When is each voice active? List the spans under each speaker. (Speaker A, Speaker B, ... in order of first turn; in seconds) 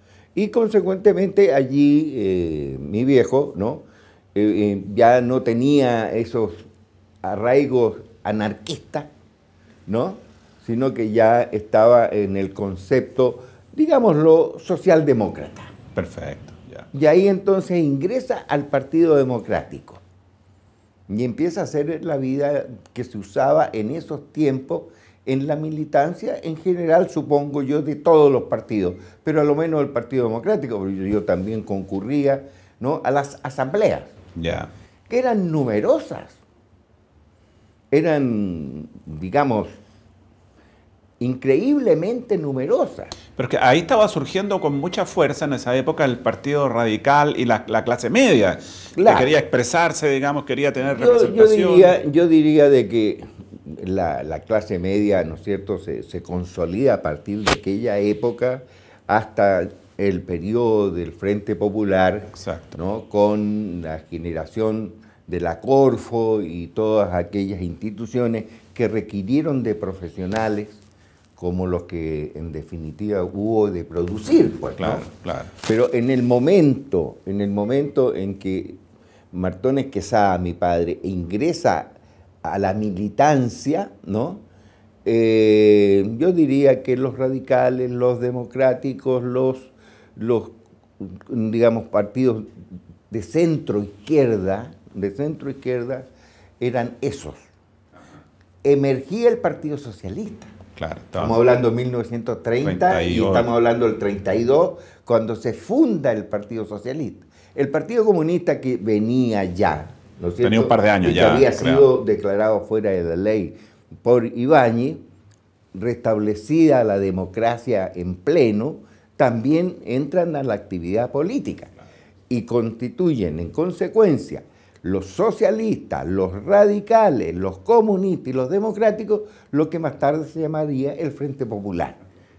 Speaker A: 0.3-6.7, 7.2-9.1, 9.9-15.7, 16.9-20.0, 21.1-34.1, 35.1-36.4, 37.9-39.8, 41.2-43.1, 49.0-49.3, 50.9-70.8, 71.4-75.1, 75.6-78.8, 79.3-81.9, 82.4-84.4, 85.0-92.5, 93.1-96.1, 96.6-97.5, 98.6-100.5, 101.2-115.0, 115.7-121.7, 122.3-132.0
Speaker B: 15.9-16.9, 34.4-34.7, 43.4-52.0, 62.4-62.8, 74.8-75.5, 100.8-101.4, 102.6-103.5, 110.4-111.9